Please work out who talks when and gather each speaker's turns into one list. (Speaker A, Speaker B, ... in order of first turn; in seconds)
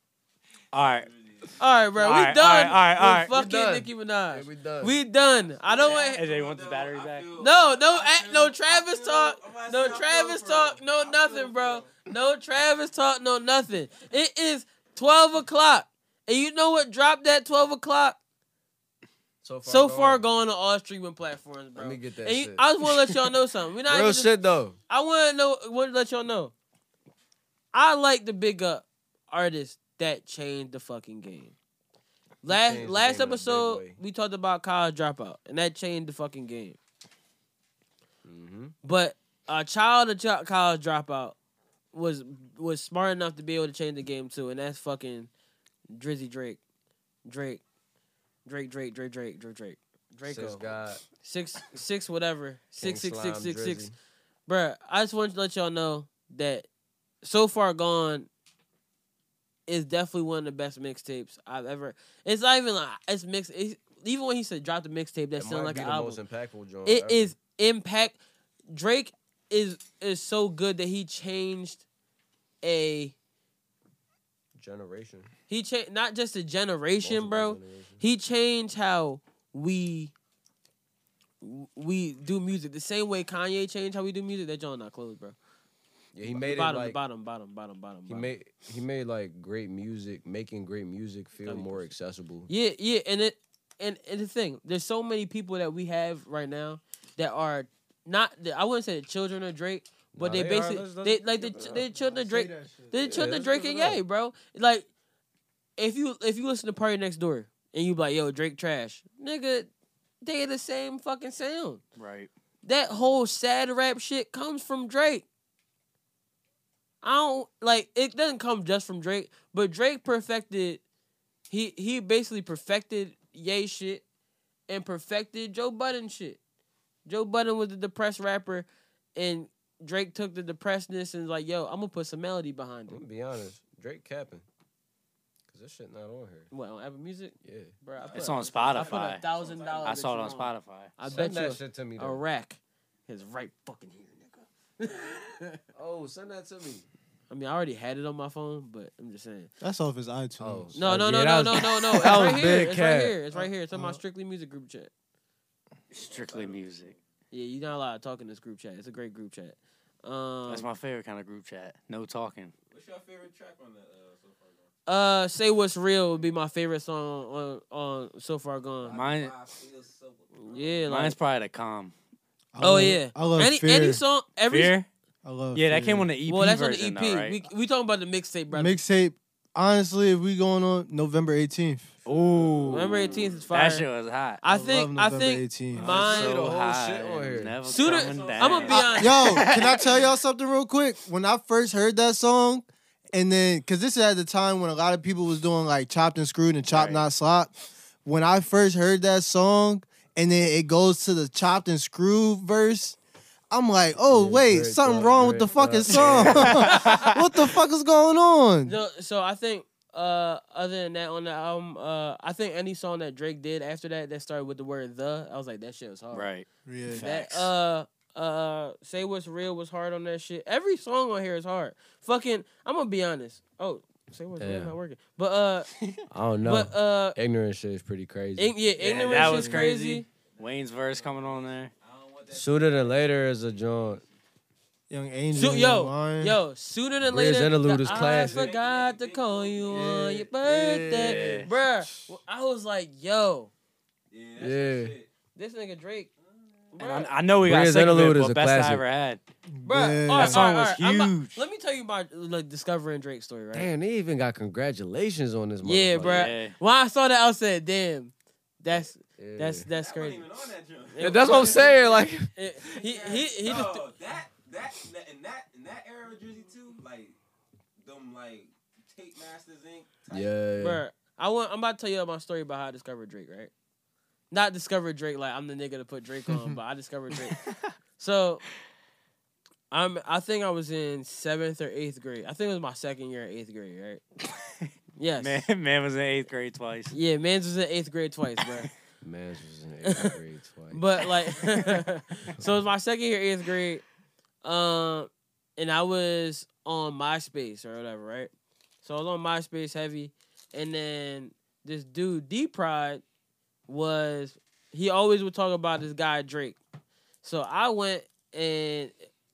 Speaker A: 0.7-1.1, 2.0-3.3, 5.9-7.3, 112.0-112.3, 138.1-139.3, 139.8-140.9, 155.9-156.9, 160.5-162.5, 168.9-169.3, 170.9-171.9, 174.5-174.9, 175.5-177.4, 182.1-184.4, 185.7-189.9, 196.7-197.0, 205.9-207.2, 216.1-217.5, 228.8-231.7, 240.9-241.5, 246.8-249.2, 250.1-251.4, 256.0-256.6, 285.2-286.9
Speaker B: 0.8-1.7, 5.4-12.0, 137.9-140.4, 155.9-157.0, 162.7-164.7, 168.8-170.9, 182.1-183.5, 187.7-189.3, 228.8-229.6, 230.3-234.2, 237.8-240.0, 244.1-245.1, 246.2-246.8, 259.7-262.1, 262.6-267.2, 267.8-270.4
Speaker C: 1.6-6.2, 7.3-18.2, 19.7-24.3, 24.9-26.5, 27.7-31.6, 32.4-36.8, 38.8-41.4, 41.9-45.3, 45.9-46.6, 47.3-47.6, 48.5-53.9, 54.5-56.7, 57.2-58.3, 59.7-66.2, 66.8-68.2, 68.7-71.8, 72.6-73.2, 75.5-80.1, 81.4-85.4, 86.3-88.3, 91.4-91.9, 92.5-104.9, 105.8-109.7, 110.2-111.8, 112.6-115.2, 117.0-120.8, 121.5-124.0, 124.7-126.4, 127.1-133.0, 136.5-145.6, 147.3-149.5, 150.7-154.9, 157.3-160.7, 164.9-169.0, 170.4-171.2, 172.6-174.7, 176.3-178.8, 182.7-183.9, 184.4-186.3, 187.6-189.5, 206.7-207.1, 208.7-216.3, 217.0-225.7, 226.4-227.2, 228.4-230.1, 235.3-243.5, 245.3-246.1, 246.7-247.1, 249.7-253.7, 255.6-260.2, 260.9-263.8, 270.6-273.5, 274.3-277.4, 278.0-278.4, 279.7-284.0, 285.0-285.4, 286.9-288.7, 290.7-293.8, 294.4-298.3, 298.8-303.0, 303.7-306.6, 307.2-308.9
Speaker D: 3.0-5.0, 19.4-20.2, 21.8-22.6, 23.9-24.8, 32.5-34.0, 38.2-38.8, 50.2-51.0, 52.8-54.0, 65.4-67.3, 74.6-75.3, 77.0-78.0, 86.1-87.0, 88.1-92.5, 100.2-101.9, 103.0-104.0, 132.9-134.4, 135.5-136.5, 137.4-137.7, 141.1-142.2, 145.8-146.9, 150.4-153.2, 185.8-187.6, 204.0-206.6, 224.4-224.7, 226.1-228.6, 232.3-234.0, 237.1-238.5, 239.7-241.5, 244.4-244.9, 247.4-248.8, 253.5-256.3, 259.2-259.7, 261.0-262.3, 270.1-270.8, 289.0-290.8
Speaker E: 101.6-103.9, 149.6-150.8, 153.3-154.0, 172.6-174.0, 175.2-176.1, 178.5-182.0, 184.5-185.9, 188.9-197.5, 198.1-203.0, 203.5-208.8, 216.7-217.0, 234.9-236.4, 249.5-250.4